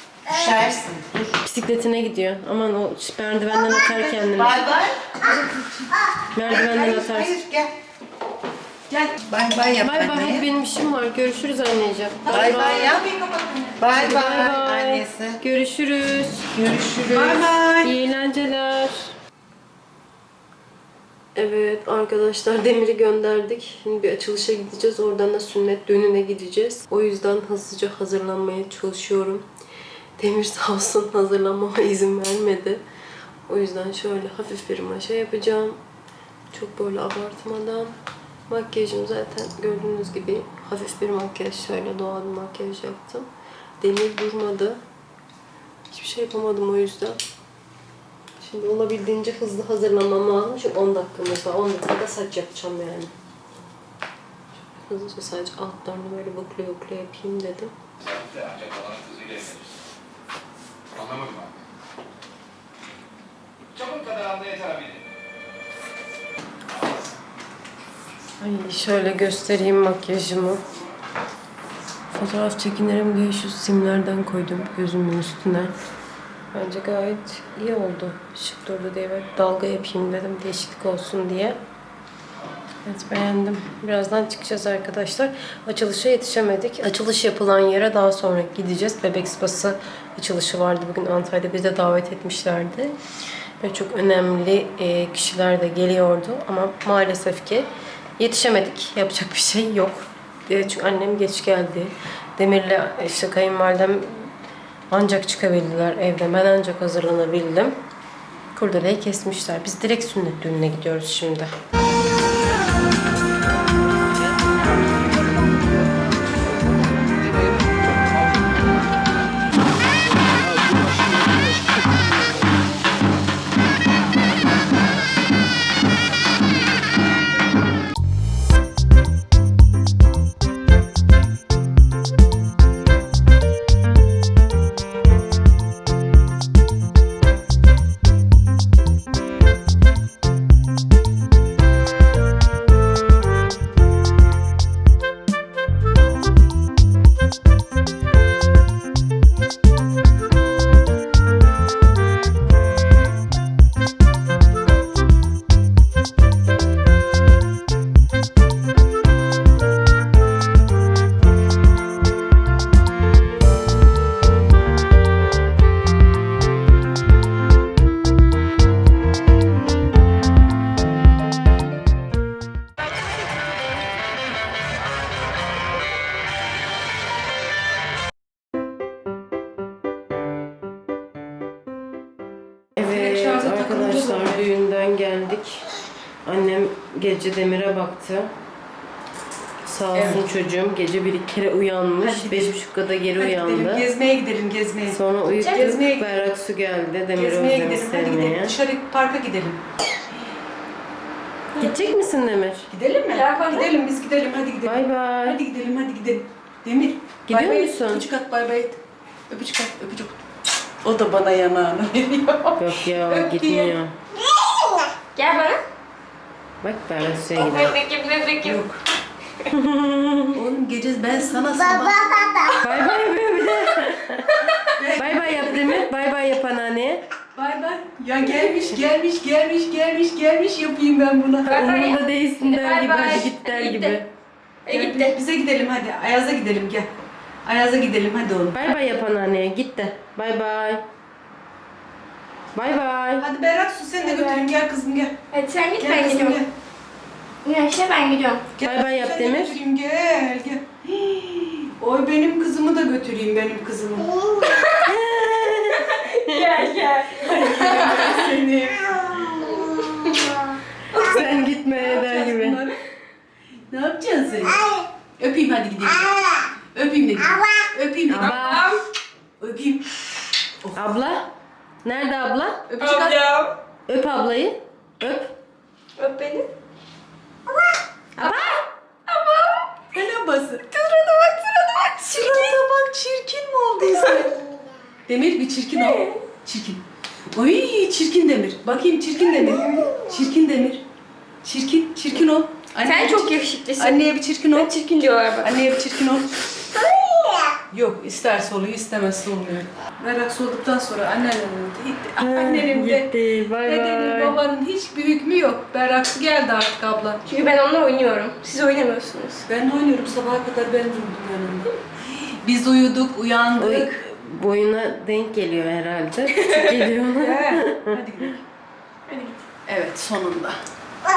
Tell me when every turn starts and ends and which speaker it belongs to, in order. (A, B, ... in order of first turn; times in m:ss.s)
0:00.2-0:01.4 A
0:01.4-0:04.6 B
0:03.7-0:05.2 A
0:05.2-0:05.9 C
0:06.3-0:07.4 B
0:06.4-0:07.7 A
0:09.2-0:10.5 A
0:09.8-0:12.9 B
0:12.2-0:14.0 C
0:12.3-0:13.2 A
0:13.8-0:15.4 A
0:13.9-0:19.1 B
0:16.6-0:17.9 A
0:16.7-0:17.3 C
0:21.3-0:29.5 B
0:30.2-0:32.8 B
0:33.5-0:35.8 B
0:36.5-0:38.0 B
0:38.5-0:43.3 B
0:43.8-0:44.8 B
0:45.9-0:47.2 B
0:48.4-0:53.1 B
0:54.8-0:57.7 B
0:58.0-0:59.6 D
1:00.9-1:01.5 D
1:03.8-1:05.0 D
1:08.4-1:10.6 B
1:12.1-1:15.7 B
1:16.5-1:21.6 B
1:22.8-1:33.0 B
1:33.6-1:44.3 B
1:44.9-1:47.8 B
1:48.5-1:51.5 B
2:00.3-2:02.0 D
3:02.8-3:05.6 B
3:02.8-3:04.5 C
3:06.2-3:08.3 B
3:09.6-3:13.8 B
3:09.9-3:10.2 C
3:12.0-3:12.6 C
3:13.2-3:16.3 C
3:14.9-3:18.6 B
3:17.2-3:19.6 C
3:21.5-3:21.8 C
3:21.6-3:22.7 B
3:22.7-3:28.8 C
3:23.1-3:23.7 E
3:24.6-3:25.4 B
3:27.3-3:28.0 B
3:29.3-3:30.2 C
3:30.8-3:33.8 C
3:32.6-3:33.9 B
3:35.1-3:35.6 E
3:36.6-3:37.8 B
3:37.4-3:38.6 E
3:38.4-3:38.8 C
3:39.5-3:40.4 B
3:40.3-3:42.3 C
3:41.8-3:42.7 E
3:42.6-3:44.4 B
3:44.7-3:45.6 C
3:45.0-3:47.0 B
3:47.3-3:51.6 C
3:51.5-3:54.0 E
3:51.5-3:54.1 B
3:54.6-3:55.2 E
3:54.7-3:56.9 C
3:57.4-3:58.6 C
3:58.5-4:00.8 B
4:02.5-4:03.3 B
4:03.2-4:05.2 C
4:04.0-4:04.4 E
4:05.3-4:06.4 E
4:05.8-4:06.5 C
4:07.4-4:08.5 E
4:08.6-4:14.1 C
4:08.6-4:09.5 B
4:14.2-4:14.9 E
4:14.8-4:16.5 B
4:15.9-4:20.1 E
4:17.2-4:19.1 C
4:20.9-4:21.3 E
4:20.9-4:22.6 B
4:21.8-4:22.8 C
4:23.7-4:28.6 C
4:28.1-4:28.7 B
4:28.1-4:28.8 E
4:29.4-4:30.0 C
4:30.7-4:31.3 B
4:31.8-4:32.6 B
4:32.7-4:33.4 C
4:32.8-4:33.5 E
4:33.9-4:35.3 B
4:36.0-4:36.5 E
4:38.2-4:38.6 B
4:38.2-4:39.8 E
4:39.9-4:40.8 C
4:40.7-4:42.6 E
4:42.0-4:44.4 C
4:45.1-4:50.8 C
4:45.9-4:46.2 E
4:51.4-4:54.7 C
4:52.8-4:54.0 E
4:54.5-4:55.5 E
4:55.4-4:56.3 C
4:56.8-4:57.5 E
4:57.7-5:03.1 C
5:02.2-5:04.4 B
5:03.6-5:07.2 C
5:07.2-5:09.5 E
5:09.5-5:14.0 C
5:13.6-5:18.0 B
5:17.1-5:18.4 C
5:19.1-5:19.4 E
5:19.6-5:20.6 C